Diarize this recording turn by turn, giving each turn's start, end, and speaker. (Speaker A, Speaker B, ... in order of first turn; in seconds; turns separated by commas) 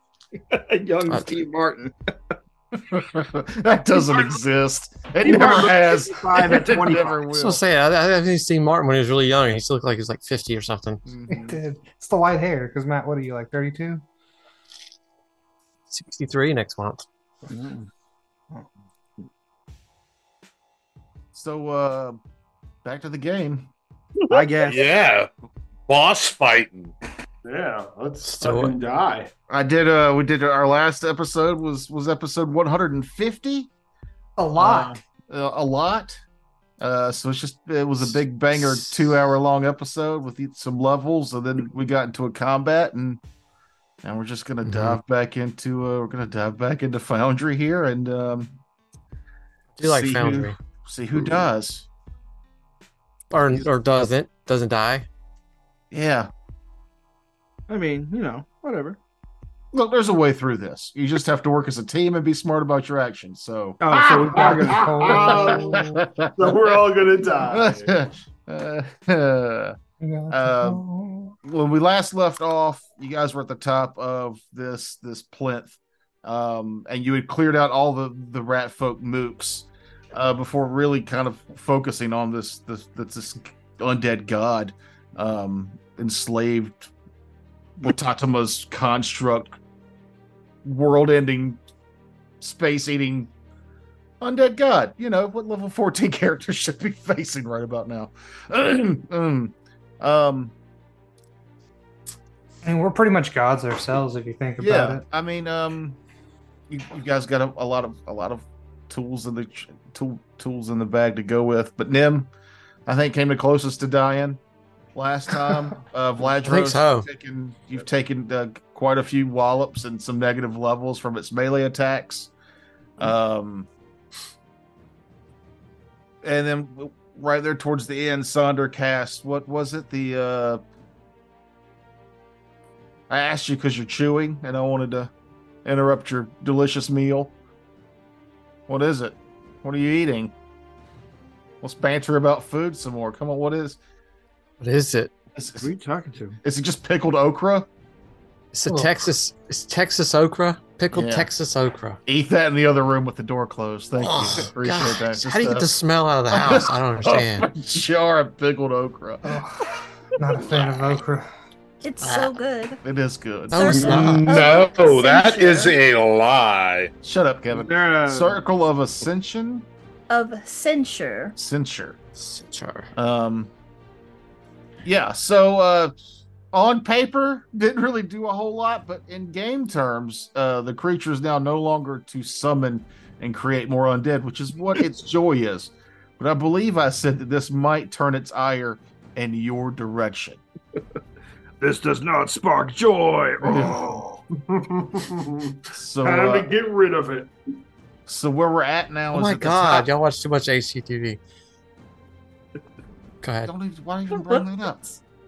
Speaker A: 0.4-2.3, Speaker B: 1.1-1.4, Speaker C: 2.9-7.6, Speaker A: 5.2-7.2, Speaker B: 7.3-11.0, Speaker C: 11.1-11.6, Speaker D: 11.3-14.0, Speaker B: 15.9-17.1, Speaker A: 17.5-17.9, Speaker C: 21.3-22.2, Speaker C: 22.8-23.7, Speaker A: 24.3-24.9, Speaker E: 24.6-25.3, Speaker E: 25.9-26.9, Speaker F: 27.4-29.3, Speaker B: 28.2-28.8, Speaker C: 29.5-33.7, Speaker D: 34.4-35.0, Speaker C: 34.6-36.2, Speaker C: 36.8-43.2, Speaker B: 38.5-39.1, Speaker C: 44.0-48.6, Speaker B: 44.6-45.0, Speaker B: 49.8-50.6, Speaker C: 49.8-51.9, Speaker B: 53.3-55.1, Speaker C: 55.9-56.3, Speaker A: 57.7-59.0, Speaker C: 59.7-66.6, Speaker A: 63.8-65.3, Speaker D: 64.3-66.0, Speaker F: 65.2-65.8, Speaker F: 66.4-68.0, Speaker C: 67.5-69.8, Speaker D: 70.0-71.3, Speaker C: 70.3-70.8, Speaker C: 71.4-86.9, Speaker C: 87.8-89.6, Speaker C: 90.6-91.6, Speaker C: 92.4-93.3, Speaker C: 94.2-100.5, Speaker D: 102.7-105.0, Speaker C: 104.6-106.0, Speaker C: 106.7-112.3, Speaker C: 112.9-114.4, Speaker C: 115.0-122.3, Speaker B: 116.4-117.1, Speaker C: 123.0-123.7, Speaker C: 126.2-130.6, Speaker C: 133.1-135.1, Speaker C: 135.7-137.3, Speaker C: 138.7-140.3, Speaker C: 141.6-143.8, Speaker B: 144.6-145.1, Speaker C: 145.3-145.7, Speaker A: 145.6-146.4, Speaker C: 146.4-147.7, Speaker B: 148.5-152.0, Speaker C: 150.9-151.3, Speaker C: 152.1-155.7, Speaker B: 154.0-157.5, Speaker C: 156.3-159.4, Speaker D: 159.2-161.3, Speaker G: 161.8-162.8, Speaker B: 162.0-162.3, Speaker C: 162.8-164.2, Speaker B: 163.5-164.4, Speaker G: 163.5-165.8, Speaker E: 163.8-166.9, Speaker C: 167.0-169.7, Speaker A: 167.5-168.4, Speaker G: 170.1-171.3, Speaker C: 171.4-172.0, Speaker B: 172.2-172.9, Speaker C: 172.9-173.5, Speaker C: 174.8-175.9, Speaker C: 176.5-190.4, Speaker A: 191.6-194.2, Speaker C: 193.4-193.8, Speaker F: 194.4-197.3, Speaker C: 195.7-196.5, Speaker C: 198.1-199.9, Speaker B: 199.1-201.2, Speaker B: 203.2-203.5, Speaker C: 203.4-204.9, Speaker G: 204.1-204.5